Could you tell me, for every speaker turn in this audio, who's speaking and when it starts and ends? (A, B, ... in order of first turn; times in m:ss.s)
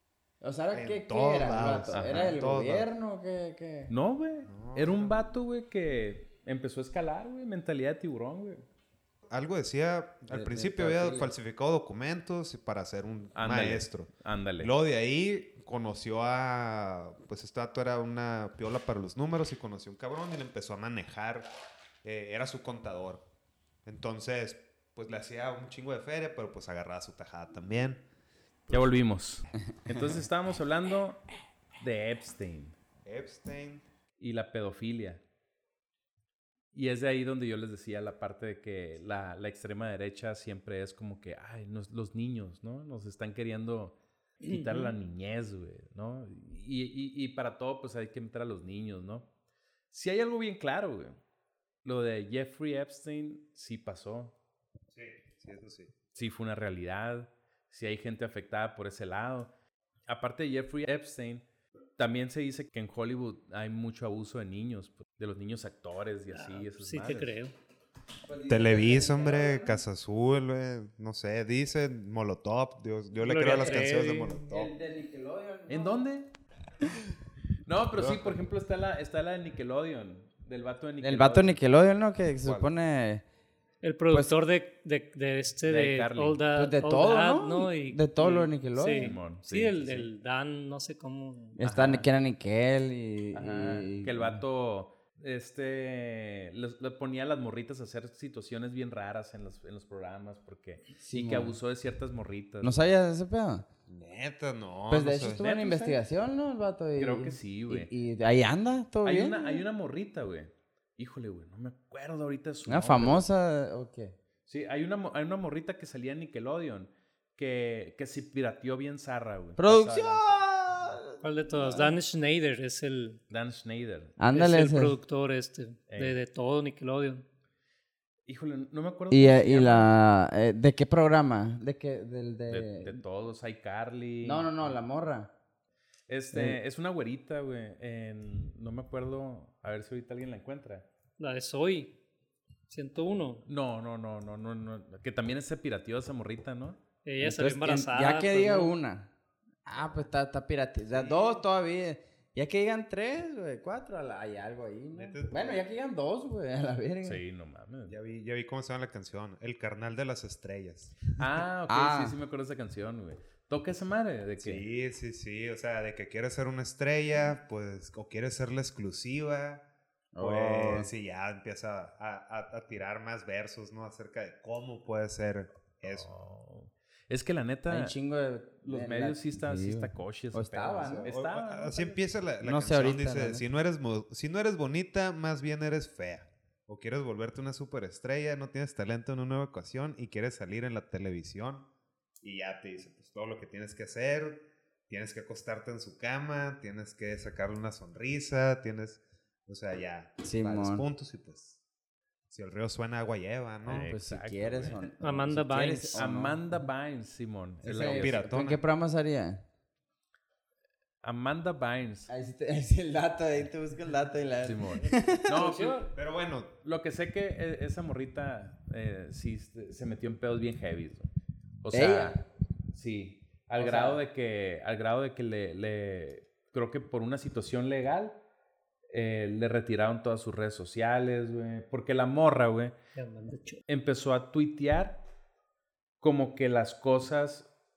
0:00.4-0:03.9 A
0:00.7-0:02.9 B
0:01.9-0:02.4 C
0:03.9-0:08.6 C
0:04.5-0:05.2 B
0:09.3-0:21.5 B
0:10.3-0:11.3 A
0:13.4-0:14.7 C
0:22.0-0:23.3 B
0:23.9-0:28.0 B
0:28.7-0:31.2 C
0:31.8-0:32.8 C
0:33.0-0:33.8 B
0:34.2-0:35.2 C
0:36.7-0:49.3 C
0:44.5-0:44.9 D
0:49.9-0:51.2 C
0:51.8-0:54.3 C
0:54.9-0:55.9 B
0:56.2-0:59.5 C
1:00.1-1:01.4 C
1:02.0-1:07.3 C
1:06.3-1:07.5 D
1:08.3-1:09.8 A
1:08.5-1:14.7 B
1:13.2-1:14.4 D
1:14.4-1:16.0 A
1:15.7-1:16.3 C
1:17.6-1:21.6 C
1:17.9-1:18.4 B
1:21.0-1:23.2 A
1:22.4-1:22.7 B
1:23.8-1:31.6 D
1:25.7-1:26.4 C
1:26.5-1:29.2 A
1:28.8-1:30.1 C
1:31.6-1:34.4 A
1:31.6-1:32.1 C
1:33.3-1:42.9 C
1:41.0-1:41.6 A
1:42.6-1:43.7 A
1:43.9-1:45.5 B
1:44.9-1:49.6 A
1:45.2-1:46.0 C
1:47.0-1:47.9 C
1:49.0-1:53.2 C
1:52.7-1:54.2 A
1:54.5-2:00.4 C
1:59.6-2:01.9 A
2:01.2-2:03.2 D
2:03.3-2:04.2 C
2:04.2-2:05.0 A
2:04.3-2:07.2 D
2:05.9-2:06.2 C
2:08.3-2:09.9 C
2:09.1-2:13.0 A
2:12.5-2:14.7 C
2:14.2-2:15.3 A
2:16.1-2:20.8 C
2:16.3-2:16.6 A
2:21.2-2:22.0 D
2:22.7-2:23.4 D
2:23.5-2:26.8 C
2:27.0-2:28.7 D
2:27.2-2:29.1 A
2:29.6-2:37.2 A
2:31.0-2:31.3 B
2:34.9-2:35.6 B
2:37.0-2:38.0 C
2:37.9-2:41.1 B
2:41.2-2:44.6 C
2:41.7-2:42.2 A
2:44.4-2:49.6 B
2:50.1-2:50.9 A
2:50.2-2:56.1 B
2:55.9-2:58.0 C
2:57.7-3:01.2 A
2:58.6-3:01.8 C
3:00.8-3:11.7 B
3:01.7-3:03.5 A
3:12.2-3:21.6 B
3:20.2-3:20.9 A
3:22.3-3:23.9 B
3:23.7-3:24.8 C
3:23.7-3:26.4 A
3:25.0-3:26.0 D
3:25.5-3:28.3 C
3:27.6-3:29.5 A
3:27.7-3:28.6 B
3:31.0-3:32.1 C
3:32.1-3:35.4 A
3:34.4-3:35.9 C
3:35.3-3:35.9 D
3:36.0-3:36.5 B
3:36.6-3:41.1 C
3:41.6-3:48.2 C
3:41.7-3:42.2 A
3:43.6-3:44.0 A
3:48.9-3:52.8 C
3:53.0-3:53.6 D
3:53.7-3:55.0 C
3:56.0-3:57.5 C